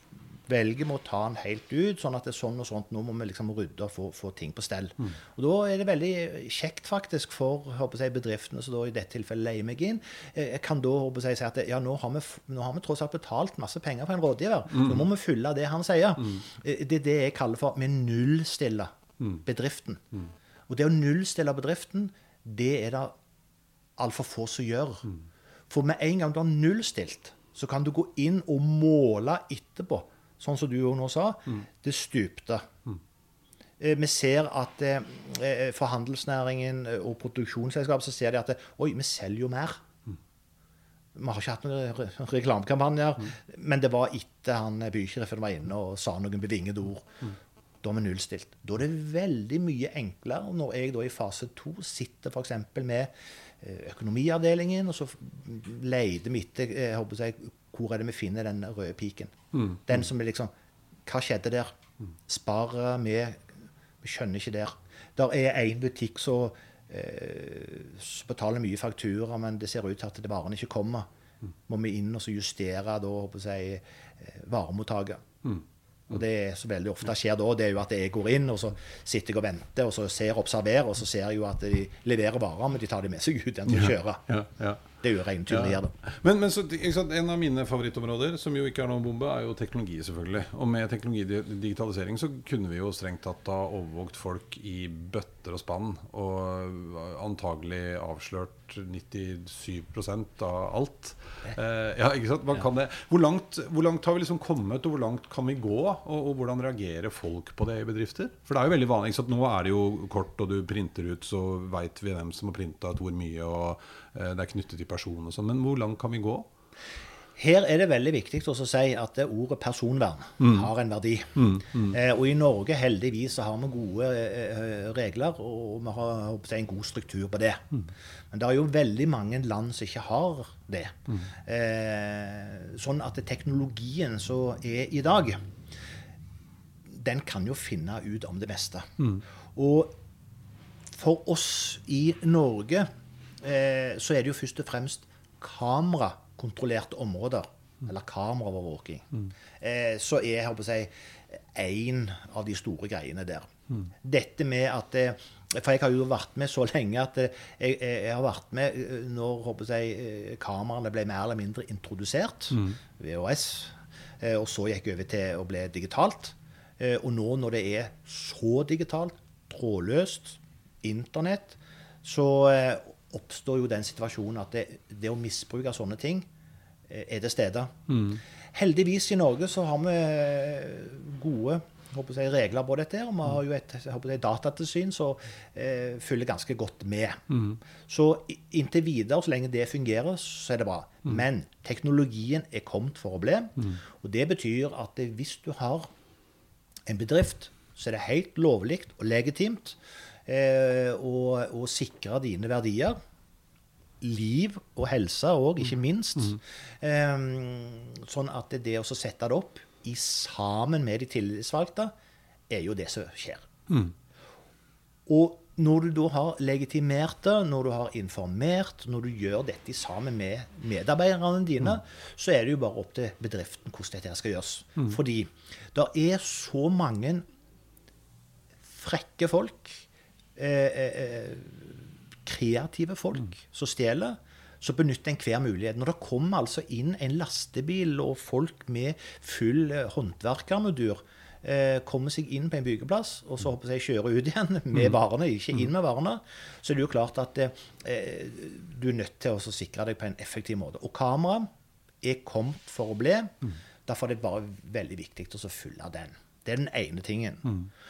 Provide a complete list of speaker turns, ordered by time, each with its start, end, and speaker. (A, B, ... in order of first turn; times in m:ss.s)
0:00.5-0:20.0 A
0:14.7-0:15.0 B
0:20.7-0:23.1 A
0:24.0-0:25.1 A
0:25.7-0:32.7 A
0:33.8-0:39.8 A
0:41.2-0:47.1 A
0:47.8-1:00.5 A
0:59.5-0:59.8 B
1:01.1-1:01.7 A
1:02.3-1:03.5 A
1:04.0-1:11.1 A
1:11.7-1:15.2 A
1:16.1-1:24.3 A
1:23.7-1:56.5 B
1:25.0-1:25.9 A
1:57.4-2:07.7 A
2:00.4-2:00.7 B
2:01.4-2:02.0 B
2:08.3-2:15.4 A
2:16.9-2:19.0 A
2:19.6-2:20.0 A
2:20.9-2:22.9 A
2:23.4-2:29.1 A
2:29.6-2:56.3 A
2:56.9-2:57.8 A
2:57.9-2:58.2 B
2:58.5-3:15.9 A
3:07.3-3:07.6 B
3:16.9-3:23.0 A
3:24.0-3:31.9 A
3:32.5-3:33.5 A
3:33.7-3:33.9 B
3:35.1-3:47.2 A
3:48.7-4:11.5 A
4:12.0-4:13.4 A
4:13.9-4:17.5 A